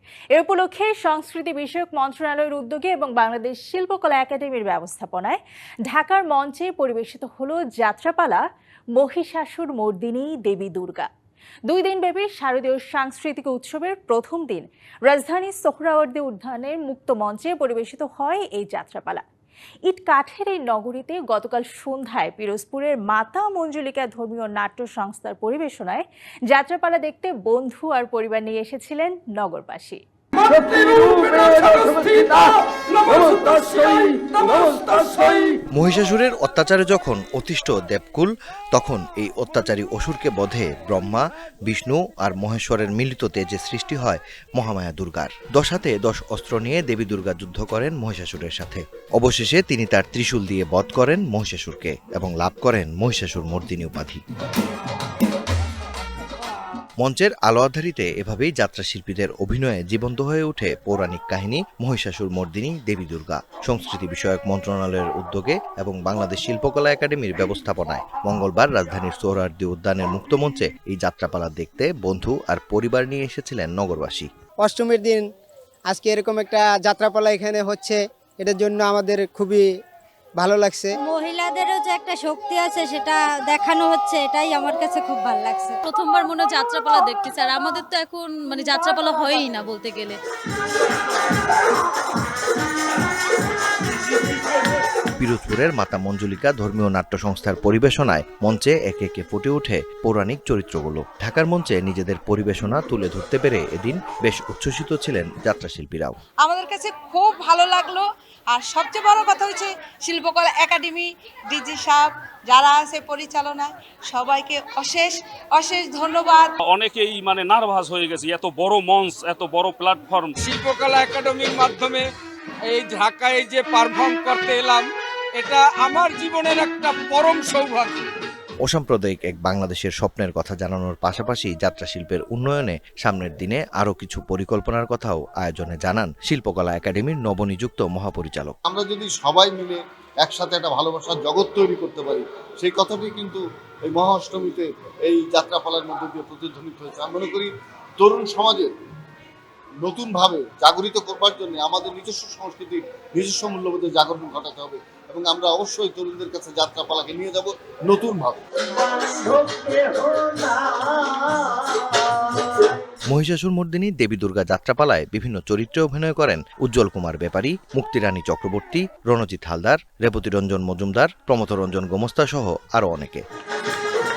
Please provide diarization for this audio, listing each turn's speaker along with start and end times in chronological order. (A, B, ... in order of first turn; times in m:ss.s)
0:00.3-0:08.4 A
0:08.9-0:11.1 A
0:11.7-0:19.2 A
0:19.8-0:30.0 A
0:35.7-0:54.2 B
0:57.0-1:14.3 B
1:14.6-1:15.2 C
1:15.9-1:19.6 C
1:20.4-1:21.0 C
1:21.0-1:25.7 D
1:25.8-1:30.2 E
1:35.2-1:46.2 B
1:46.5-1:48.0 F
1:48.5-1:56.4 F
1:56.6-2:00.4 G
2:00.4-2:02.0 H
2:02.7-2:04.8 H
2:05.4-2:08.0 H
2:08.6-2:18.6 B
2:18.6-2:28.7 I
2:29.8-2:38.4 I
2:43.1-2:53.2 B